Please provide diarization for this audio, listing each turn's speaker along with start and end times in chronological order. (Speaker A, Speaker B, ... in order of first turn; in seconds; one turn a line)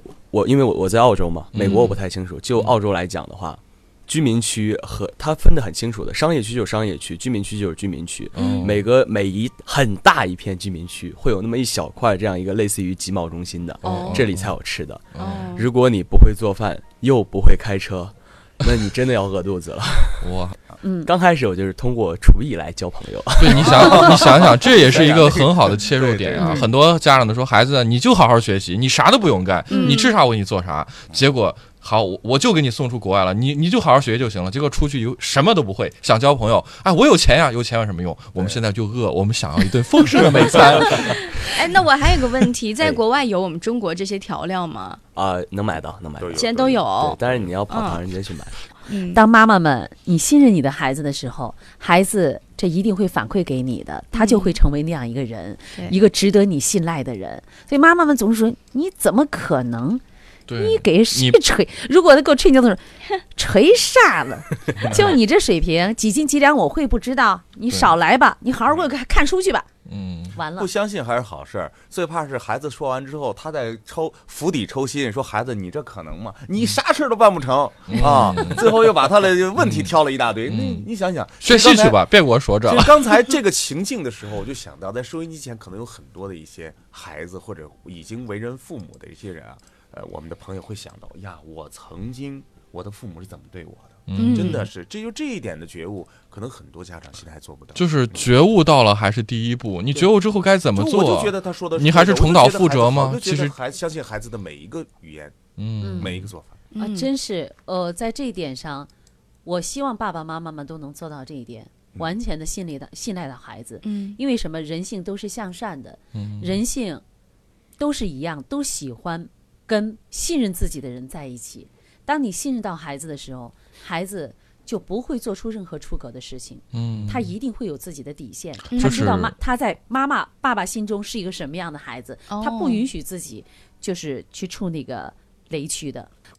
Speaker A: 0.3-20.4
Speaker B: 1.5-2.0
Speaker C: 1.6-1.9
Speaker B: 8.3-8.8
Speaker C: 8.4-8.7
Speaker C: 13.8-14.3
Speaker B: 13.8-14.5
Speaker B: 15.1-15.6
Speaker C: 15.2-15.7
Speaker B: 20.2-20.6
Speaker D: 20.8-21.1
Speaker A: 21.0-25.5
Speaker B: 23.4-41.5
Speaker E: 24.1-26.7
Speaker D: 26.4-26.7
Speaker C: 29.7-30.1
Speaker D: 29.7-30.1
Speaker C: 41.0-45.0
Speaker A: 45.1-48.6
Speaker E: 46.2-47.5
Speaker C: 46.3-48.0
Speaker C: 48.9-49.2
Speaker D: 49.1-60.0
Speaker C: 54.1-54.6
Speaker B: 60.5-61.4
Speaker D: 60.6-69.7
Speaker B: 64.8-65.2
Speaker B: 69.9-70.4
Speaker D: 70.3-70.7
Speaker E: 70.5-82.1
Speaker B: 77.9-79.0
Speaker B: 79.6-80.0
Speaker B: 80.5-80.9
Speaker B: 81.4-83.4
Speaker E: 82.6-98.3
Speaker B: 94.1-94.7
Speaker C: 94.2-94.6
Speaker B: 97.8-103.6
Speaker E: 100.8-106.5
Speaker B: 105.6-106.3
Speaker D: 105.8-106.1
Speaker C: 106.7-107.1
Speaker D: 106.8-108.9
Speaker D: 109.5-117.0
Speaker C: 113.8-114.2
Speaker B: 116.1-116.6
Speaker D: 117.8-136.1
Speaker B: 126.7-127.3
Speaker C: 128.7-129.0
Speaker B: 128.8-129.3
Speaker C: 132.3-132.8